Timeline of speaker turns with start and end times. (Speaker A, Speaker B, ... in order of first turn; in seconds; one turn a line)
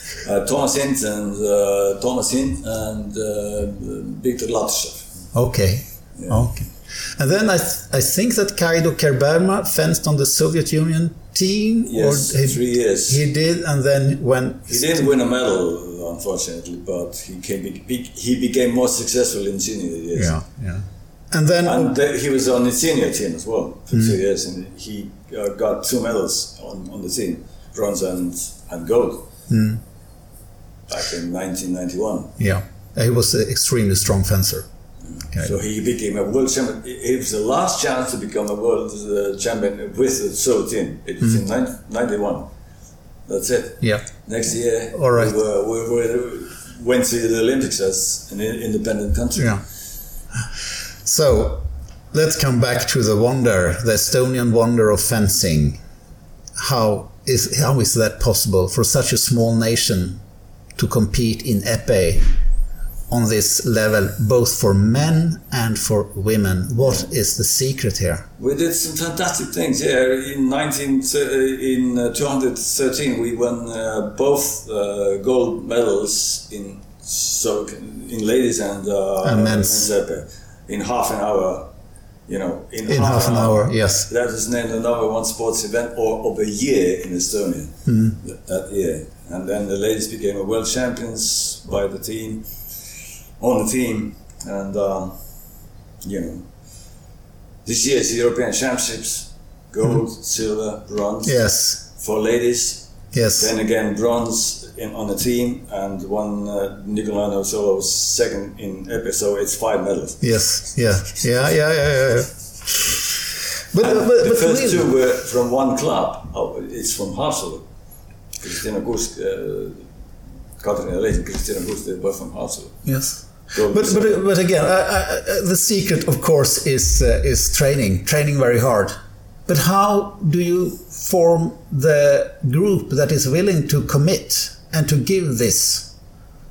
Speaker A: 0.2-5.1
Speaker B: 5.3-14.8
Speaker A: 11.9-13.2
Speaker A: 14.7-20.4
Speaker B: 20.2-21.9
Speaker A: 21.6-29.3
Speaker B: 29.5-29.8
Speaker A: 30.9-32.3
Speaker B: 32.4-34.6
Speaker A: 35.1-42.5
Speaker A: 43.3-49.6
Speaker B: 44.9-45.3
Speaker B: 51.0-55.8
Speaker B: 56.5-60.2
Speaker B: 60.8-62.3
Speaker B: 63.1-68.2
Speaker A: 68.4-81.7
Speaker B: 79.2-79.9
Speaker A: 82.3-92.5
Speaker B: 82.9-84.0
Speaker B: 87.9-88.2
Speaker A: 93.4-95.2
Speaker A: 96.0-96.5
Speaker A: 97.6-110.2
Speaker B: 101.2-101.8
Speaker B: 103.1-103.5
Speaker B: 110.2-113.0
Speaker B: 113.7-114.8
Speaker A: 113.8-117.6
Speaker A: 118.4-119.9
Speaker A: 120.6-124.2
Speaker B: 122.8-128.9
Speaker B: 129.5-135.9